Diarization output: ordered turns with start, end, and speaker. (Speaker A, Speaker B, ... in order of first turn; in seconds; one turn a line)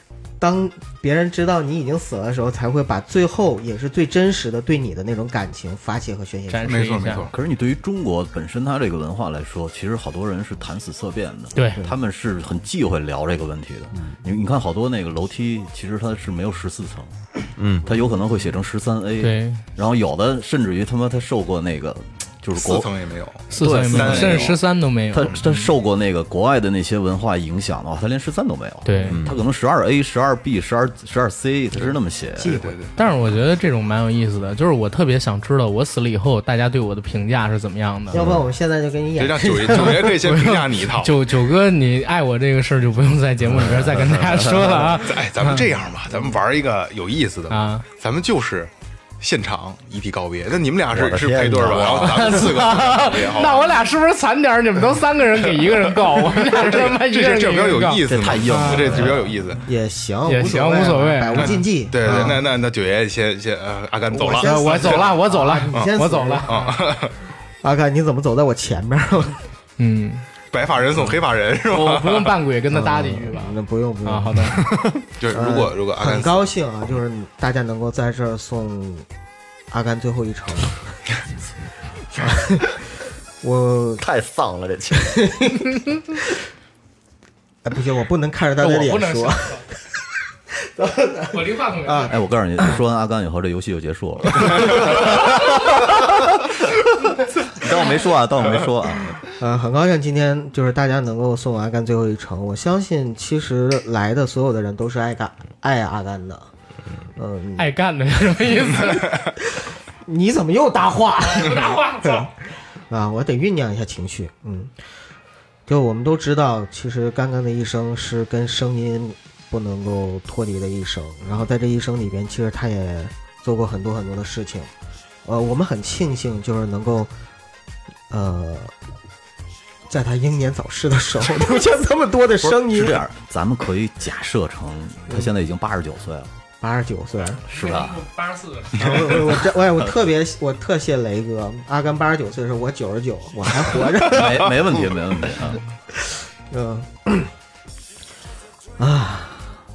Speaker A: 0.4-6.8
Speaker B: 6.5-7.3
Speaker C: 6.6-7.3
Speaker D: 7.3-17.1
Speaker B: 11.5-11.8
Speaker E: 17.6-17.9
Speaker D: 17.8-23.0
Speaker B: 19.2-19.6
Speaker C: 22.5-24.6
Speaker B: 23.5-25.7
Speaker D: 23.5-32.6
Speaker B: 28.8-29.2
Speaker A: 32.4-32.8
Speaker C: 32.4-32.9
Speaker B: 33.0-38.2
Speaker A: 38.1-40.1
Speaker C: 39.2-41.2
Speaker B: 39.8-45.6
Speaker D: 43.7-44.7
Speaker C: 45.0-53.8
Speaker B: 47.5-47.8
Speaker E: 50.9-52.3
Speaker B: 52.0-59.0
Speaker C: 55.7-59.6
Speaker D: 58.1-59.3
Speaker A: 59.6-62.4
Speaker B: 60.2-62.3
Speaker C: 61.4-65.9
Speaker A: 64.1-66.8
Speaker B: 64.3-66.7
Speaker C: 66.5-67.1
Speaker A: 67.6-69.4
Speaker B: 69.8-70.2
Speaker C: 70.5-72.4
Speaker B: 71.7-73.5
Speaker A: 72.7-74.6
Speaker B: 74.0-74.6
Speaker C: 74.6-76.5
Speaker A: 75.3-79.0
Speaker A: 79.7-80.9
Speaker A: 82.2-82.8
Speaker A: 83.4-84.0
Speaker E: 84.0-85.2
Speaker A: 85.0-85.6
Speaker A: 87.6-89.6
Speaker B: 88.6-89.6
Speaker A: 90.7-92.1
Speaker B: 91.3-92.2
Speaker D: 92.1-96.8
Speaker D: 97.5-99.3
Speaker A: 99.4-106.5
Speaker A: 107.2-107.7
Speaker B: 107.6-109.3
Speaker A: 110.0-112.3
Speaker B: 111.3-112.3
Speaker A: 112.9-114.7
Speaker A: 115.7-124.7
Speaker A: 125.2-127.1
Speaker A: 128.1-128.7
Speaker A: 129.9-133.0
Speaker D: 132.4-136.3
Speaker A: 136.6-137.4
Speaker D: 137.5-138.0
Speaker B: 137.5-138.8
Speaker A: 138.7-144.7
Speaker D: 144.1-145.6
Speaker A: 146.5-147.3
Speaker A: 148.8-149.5